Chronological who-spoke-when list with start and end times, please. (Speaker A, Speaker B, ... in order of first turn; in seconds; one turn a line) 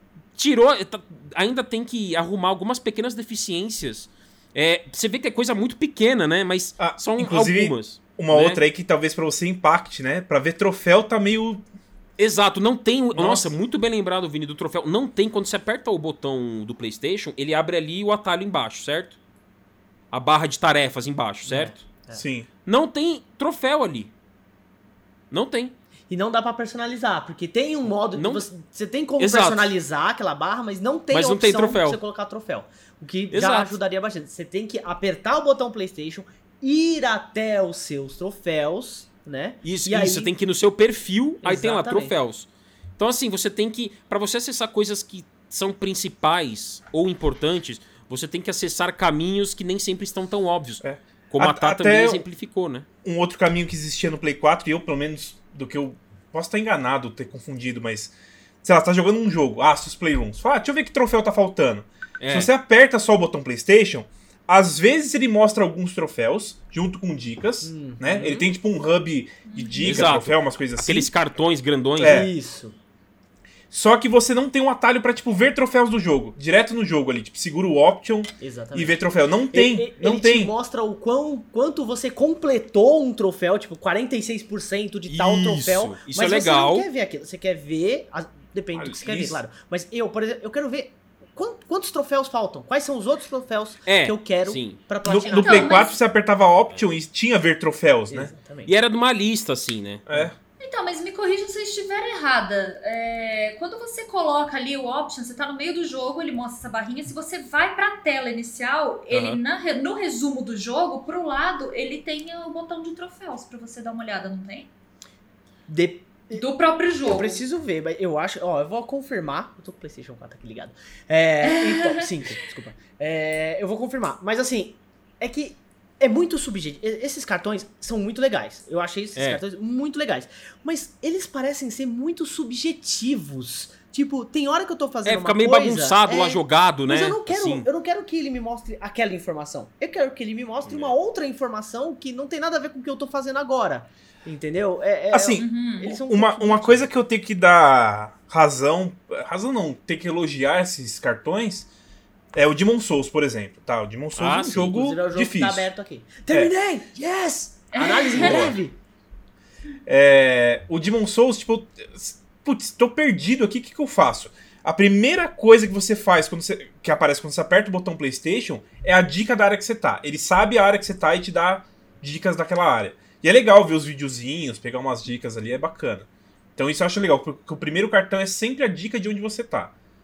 Speaker A: 0.4-8.6
Speaker B: 6.8-11.6
Speaker A: 12.2-19.2
Speaker B: 13.1-13.5
Speaker A: 20.1-21.9
Speaker C: 21.5-22.2
Speaker B: 22.1-22.5
Speaker A: 22.7-24.1
Speaker A: 25.3-25.7
Speaker C: 26.1-40.3
Speaker A: 28.1-28.5
Speaker A: 29.2-29.7
Speaker A: 31.1-32.0
Speaker A: 33.3-33.8
Speaker A: 39.6-52.9
Speaker C: 41.4-42.1
Speaker B: 50.8-52.2
Speaker B: 53.0-71.1
Speaker A: 62.2-62.5
Speaker C: 67.6-68.5
Speaker D: 69.5-70.1
Speaker A: 69.8-72.3
Speaker B: 72.0-72.3
Speaker C: 72.0-72.8
Speaker B: 73.7-80.5
Speaker C: 78.4-79.0
Speaker C: 79.5-95.8
Speaker A: 85.1-86.9
Speaker B: 88.8-89.4
Speaker A: 93.9-94.8
Speaker B: 95.0-98.3
Speaker D: 95.3-96.0
Speaker C: 98.1-98.7
Speaker A: 98.7-100.0
Speaker B: 100.1-100.3
Speaker D: 100.6-114.7
Speaker A: 109.1-109.4
Speaker C: 115.7-116.5
Speaker D: 116.3-117.4
Speaker C: 117.0-146.8
Speaker D: 121.5-122.0
Speaker A: 135.1-137.7
Speaker A: 140.7-140.9
Speaker B: 145.1-151.7
Speaker D: 145.4-145.9
Speaker B: 152.3-155.7
Speaker A: 154.2-154.7
Speaker C: 154.7-158.8
Speaker D: 157.7-158.5
Speaker B: 158.2-158.6
Speaker B: 159.9-179.7